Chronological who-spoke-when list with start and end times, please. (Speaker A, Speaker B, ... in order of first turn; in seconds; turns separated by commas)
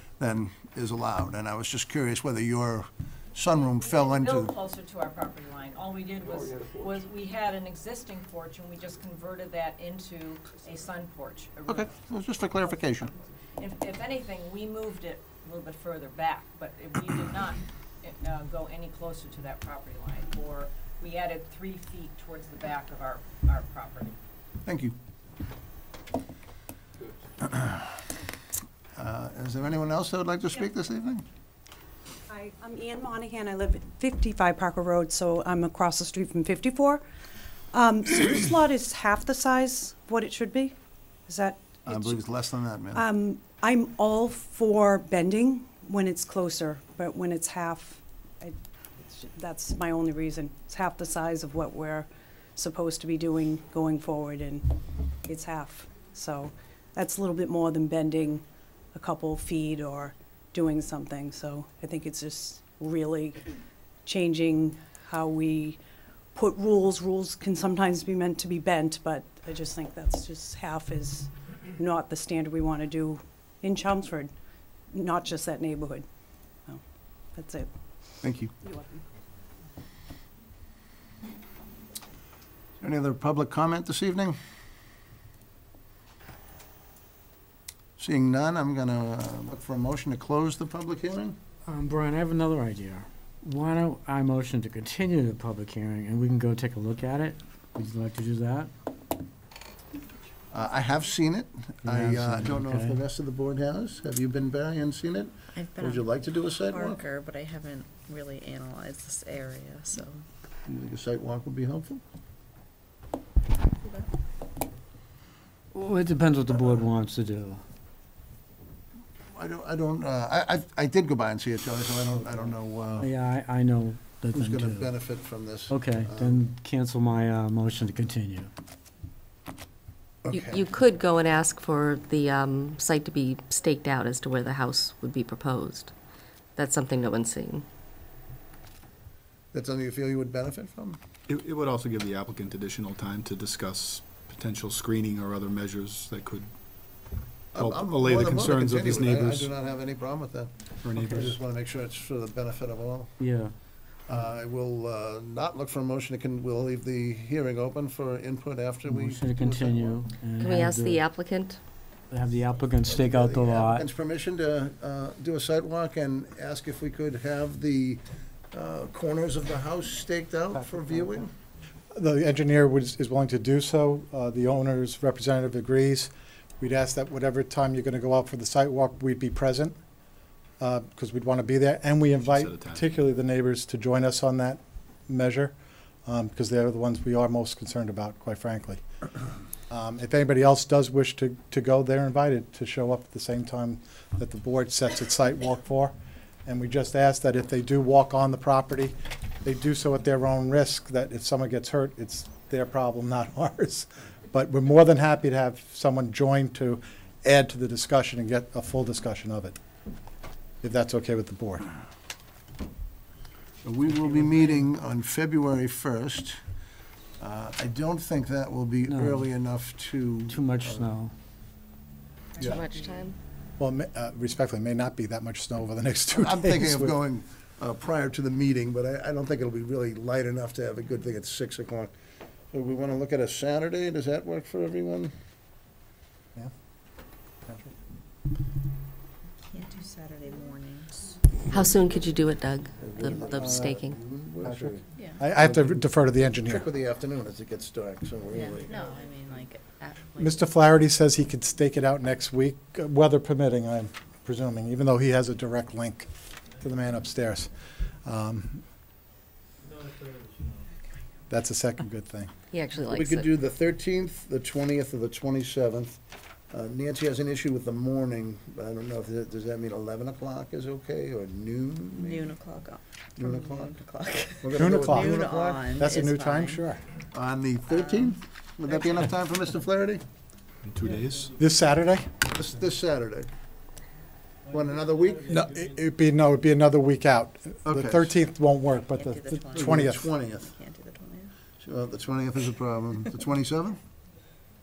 Speaker A: 0.2-4.5, Speaker B: 3.5-11.9, Speaker A: 11.7-13.1, Speaker B: 13.6-24.1, Speaker A: 24.6-24.9, Speaker A: 27.4-27.8, Speaker A: 29.0-31.2, Speaker C: 32.3-37.0, Speaker C: 37.7-40.8, Speaker C: 41.3-42.1, Speaker A: 41.9-43.1, Speaker C: 42.9-54.7, Speaker C: 55.3-58.4, Speaker C: 58.9-63.5, Speaker C: 64.0-65.8, Speaker C: 66.3-74.3, Speaker C: 74.9-76.0, Speaker C: 77.3-77.7, Speaker A: 78.2-78.5, Speaker C: 78.6-79.0, Speaker A: 82.8-84.4, Speaker A: 88.0-91.4, Speaker D: 91.7-98.7, Speaker A: 100.5-107.0, Speaker D: 101.8-103.0, Speaker E: 105.5-110.2, Speaker A: 110.7-112.0, Speaker E: 113.8-114.1, Speaker D: 115.7-117.6, Speaker A: 119.3-123.1, Speaker D: 123.0-125.0, Speaker A: 124.3-126.4, Speaker D: 125.7-128.5, Speaker A: 130.2-130.6, Speaker F: 130.3-135.9, Speaker F: 136.6-137.7, Speaker A: 139.5-141.0, Speaker G: 141.3-146.5, Speaker G: 147.5-149.5, Speaker A: 147.5-153.1, Speaker G: 150.8-151.4, Speaker D: 153.2-153.5, Speaker A: 154.1-160.0, Speaker D: 158.8-161.1, Speaker F: 160.4-161.6, Speaker D: 162.1-163.9, Speaker A: 162.8-171.3, Speaker H: 171.9-179.8, Speaker H: 180.6-185.5, Speaker G: 182.2-182.8, Speaker H: 186.1-188.8, Speaker H: 189.7-195.9, Speaker H: 196.4-209.6, Speaker H: 210.6-211.6, Speaker A: 213.6-216.4, Speaker A: 217.2-220.9, Speaker D: 218.8-219.3, Speaker D: 220.3-221.1, Speaker A: 222.4-222.6, Speaker F: 222.4-223.2, Speaker H: 223.6-226.9, Speaker A: 226.1-231.9, Speaker A: 232.5-235.1, Speaker E: 239.5-241.2, Speaker F: 241.5-244.0, Speaker A: 242.8-248.8, Speaker H: 244.4-246.7, Speaker E: 245.0-245.2, Speaker E: 248.3-250.6, Speaker H: 250.2-258.6, Speaker H: 261.3-262.3, Speaker F: 262.5-263.4, Speaker A: 262.9-266.0, Speaker A: 266.5-272.3, Speaker E: 272.0-276.6, Speaker A: 273.2-273.8, Speaker A: 274.4-275.8, Speaker H: 274.5-275.2, Speaker H: 275.7-276.9, Speaker A: 277.1-280.0, Speaker G: 280.6-281.4, Speaker E: 281.0-281.3, Speaker H: 281.4-282.1, Speaker A: 282.3-283.3, Speaker E: 284.4-285.7, Speaker A: 284.5-285.3, Speaker H: 285.3-290.2, Speaker A: 287.6-288.1, Speaker E: 288.9-291.3, Speaker A: 289.5-290.5, Speaker A: 291.6-293.8